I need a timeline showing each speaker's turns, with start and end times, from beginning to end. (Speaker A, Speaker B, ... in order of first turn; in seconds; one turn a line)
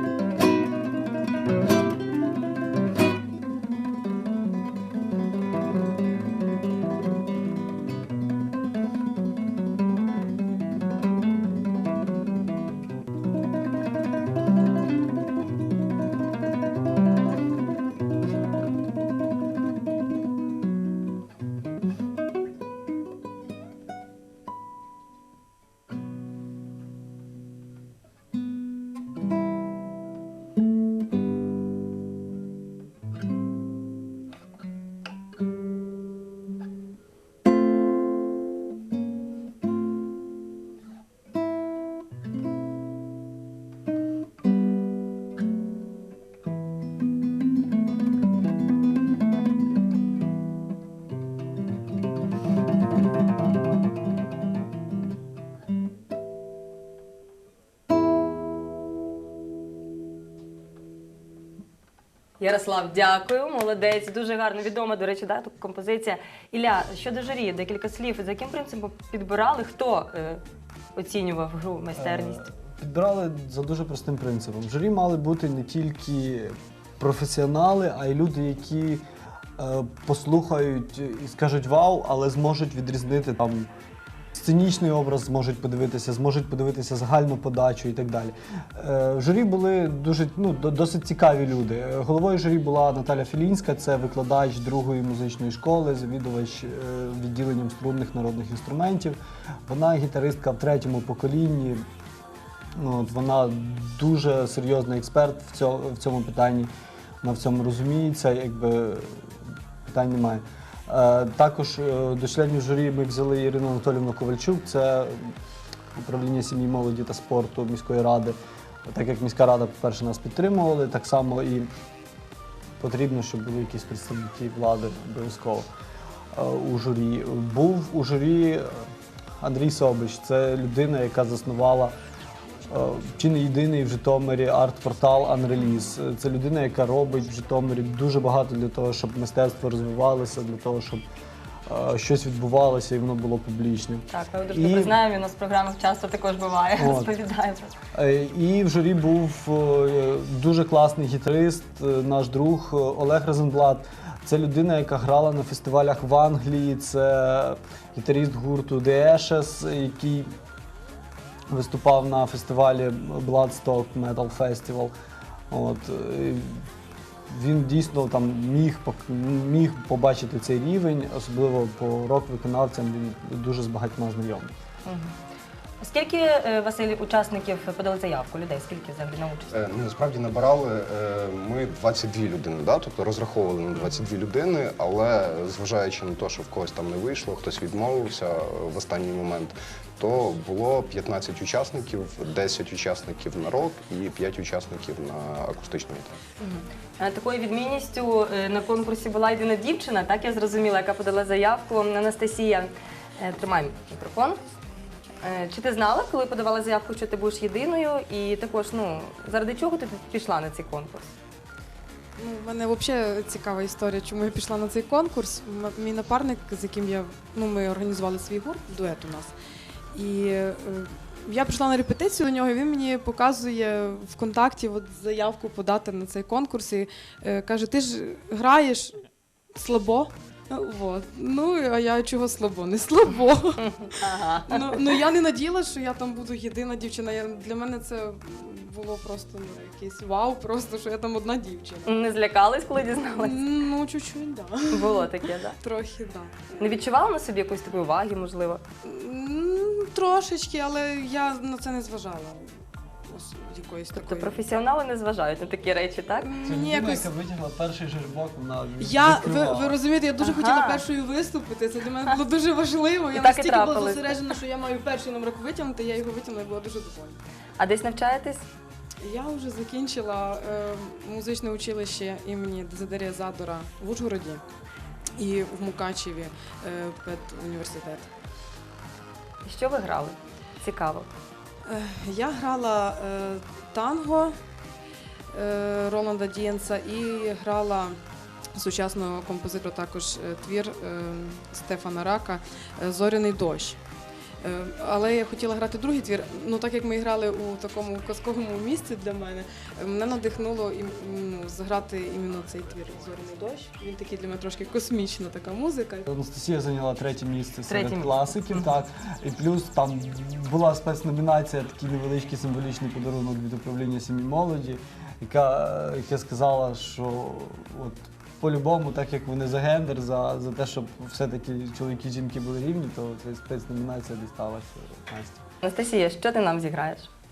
Speaker A: 62.4-70.4
Speaker A: 71.0-72.5
Speaker B: 72.0-79.0
Speaker B: 79.6-83.7
Speaker B: 84.3-101.9
Speaker B: 102.8-106.7
Speaker B: 107.2-115.4
Speaker B: 115.9-118.4
Speaker B: 118.9-121.7
Speaker B: 122.8-125.7
Speaker B: 126.3-131.9
Speaker B: 132.7-141.0
Speaker B: 141.7-145.0
Speaker A: 144.1-147.7
Speaker B: 146.8-147.1
Speaker B: 147.9-160.3
Speaker B: 161.5-164.9
Speaker B: 165.5-166.7
Speaker B: 167.3-174.5
Speaker A: 174.8-175.2
Speaker A: 175.8-179.6
Speaker C: 179.5-196.2
Speaker A: 196.4-204.4
Speaker A: 205.2-211.1
Speaker D: 212.2-219.3
Speaker D: 219.9-242.0
Speaker A: 233.6-234.8
Speaker A: 241.9-243.6
Speaker D: 243.1-246.4
Speaker A: 244.7-245.6
Speaker A: 246.6-248.6
Speaker D: 248.8-254.4
Speaker A: 253.9-256.3
Speaker D: 256.2-257.1
Speaker B: 256.4-259.8
Speaker D: 258.8-267.2
Speaker A: 260.2-260.8
Speaker A: 263.1-264.3
Speaker A: 267.6-268.4
Speaker D: 269.0-274.4
Speaker D: 275.2-278.1
Speaker A: 279.4-281.1
Speaker D: 281.7-284.4
Speaker D: 285.3-288.0
Speaker D: 288.5-293.8
Speaker D: 294.4-306.1
Speaker B: 306.1-325.4
Speaker A: 307.7-308.6
Speaker A: 325.6-327.1